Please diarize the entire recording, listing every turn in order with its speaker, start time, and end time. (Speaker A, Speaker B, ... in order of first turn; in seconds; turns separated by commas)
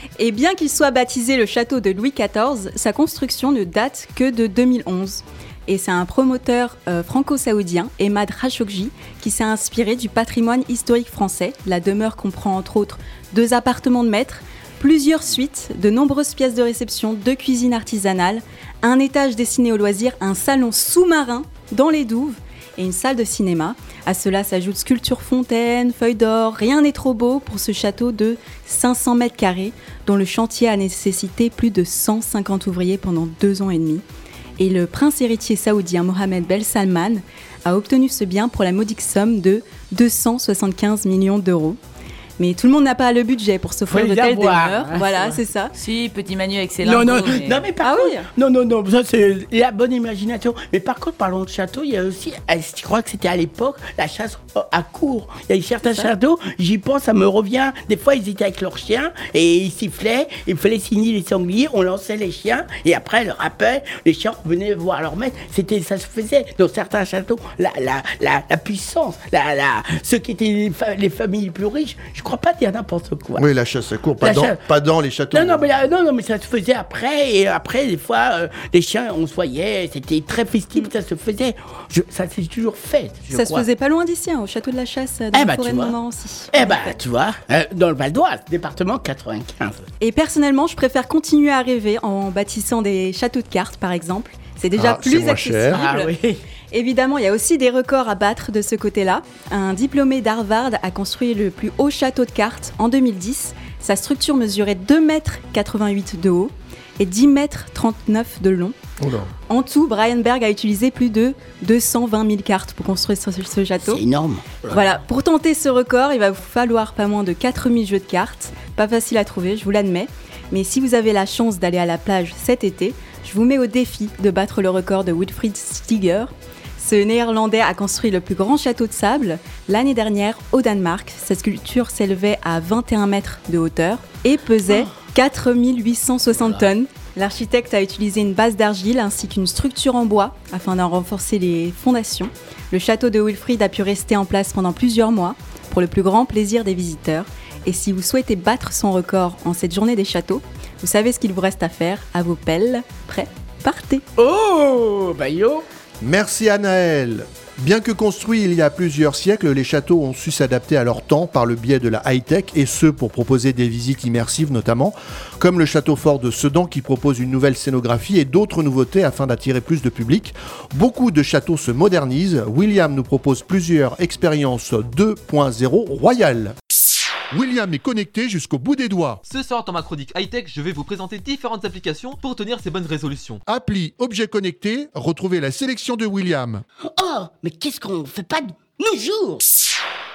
Speaker A: 0.2-34.0, Speaker A: 34.6-41.8, Speaker A: 42.4-45.7, Speaker B: 43.9-45.4, Speaker C: 45.8-48.2, Speaker B: 46.8-73.5, Speaker D: 73.3-75.7, Speaker B: 74.2-74.6, Speaker B: 75.3-83.7, Speaker A: 83.3-86.9, Speaker B: 85.3-86.0, Speaker B: 86.5-89.8, Speaker A: 90.0-96.0, Speaker D: 94.7-95.8, Speaker B: 95.7-96.4, Speaker C: 95.8-96.1, Speaker A: 96.7-108.8, Speaker D: 109.0-109.3, Speaker A: 109.5-114.0, Speaker B: 113.8-114.8, Speaker A: 114.7-154.0, Speaker B: 136.3-136.7, Speaker B: 154.2-155.6, Speaker D: 156.0-176.5, Speaker D: 177.3-179.2, Speaker E: 179.2-183.4, Speaker D: 183.5-186.6, Speaker B: 186.9-189.4